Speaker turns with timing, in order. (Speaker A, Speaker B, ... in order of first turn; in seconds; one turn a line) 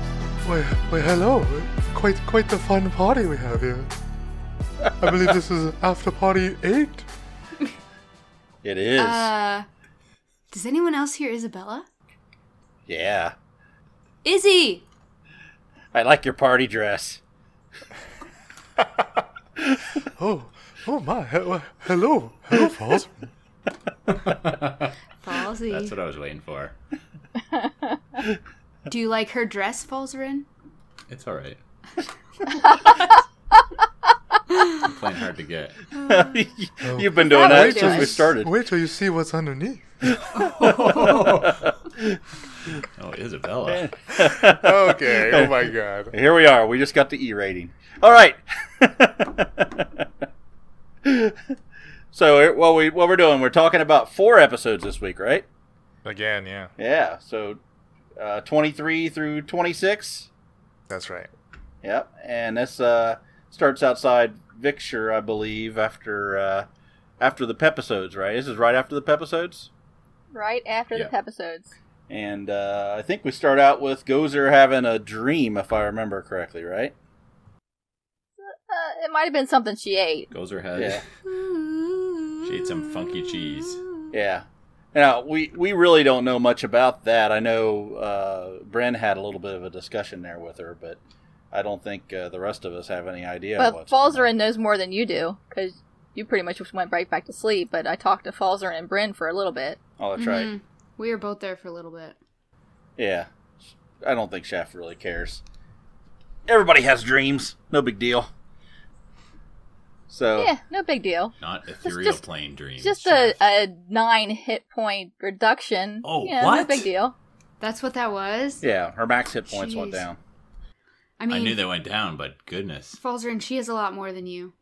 Speaker A: 0.4-3.9
Speaker A: 5.0-7.1
Speaker B: 8.6-9.3
Speaker C: 9.0-9.7
Speaker C: 10.5-11.9
Speaker B: 12.9-13.3
Speaker C: 14.2-14.9
Speaker B: 15.9-17.2
Speaker B: 19.6-19.9
Speaker A: 20.2-23.1
Speaker D: 24.5-24.9
Speaker C: 25.2-25.9
Speaker D: 25.7-26.7
Speaker E: 27.5-28.0
Speaker C: 28.9-30.5
Speaker D: 31.1-31.6
Speaker C: 32.5-33.2
Speaker C: 34.5-34.9
Speaker D: 34.8-35.9
Speaker C: 36.0-36.4
Speaker B: 36.0-38.5
Speaker A: 36.8-40.2
Speaker E: 37.2-38.2
Speaker B: 40.1-42.2
Speaker C: 40.4-41.3
Speaker D: 40.6-41.6
Speaker D: 42.8-43.9
Speaker B: 43.7-50.1
Speaker A: 44.1-46.1
Speaker B: 51.0-51.6
Speaker B: 52.1-55.5
Speaker A: 56.0-56.7
Speaker B: 56.8-57.6
Speaker B: 58.2-60.3
Speaker A: 60.9-61.3
Speaker B: 61.8-66.7
Speaker B: 67.2-69.7
Speaker E: 70.3-71.7
Speaker B: 72.1-77.0
Speaker E: 78.5-80.3
Speaker D: 80.3-81.0
Speaker B: 80.8-81.0
Speaker C: 81.3-82.6
Speaker D: 82.4-83.8
Speaker C: 83.7-84.1
Speaker B: 84.1-91.0
Speaker B: 91.5-94.3
Speaker E: 93.6-99.8
Speaker B: 100.0-100.5
Speaker C: 100.2-102.2
Speaker B: 103.0-103.3
Speaker B: 104.0-105.4
Speaker B: 106.5-108.3
Speaker B: 110.1-110.5
Speaker E: 110.4-111.3
Speaker D: 111.4-113.4
Speaker E: 111.8-112.2
Speaker E: 112.8-117.2
Speaker D: 116.0-116.9
Speaker C: 117.6-118.6
Speaker B: 118.6-120.2
Speaker C: 119.5-120.0
Speaker C: 121.2-121.6
Speaker D: 121.3-123.0
Speaker C: 123.0-124.5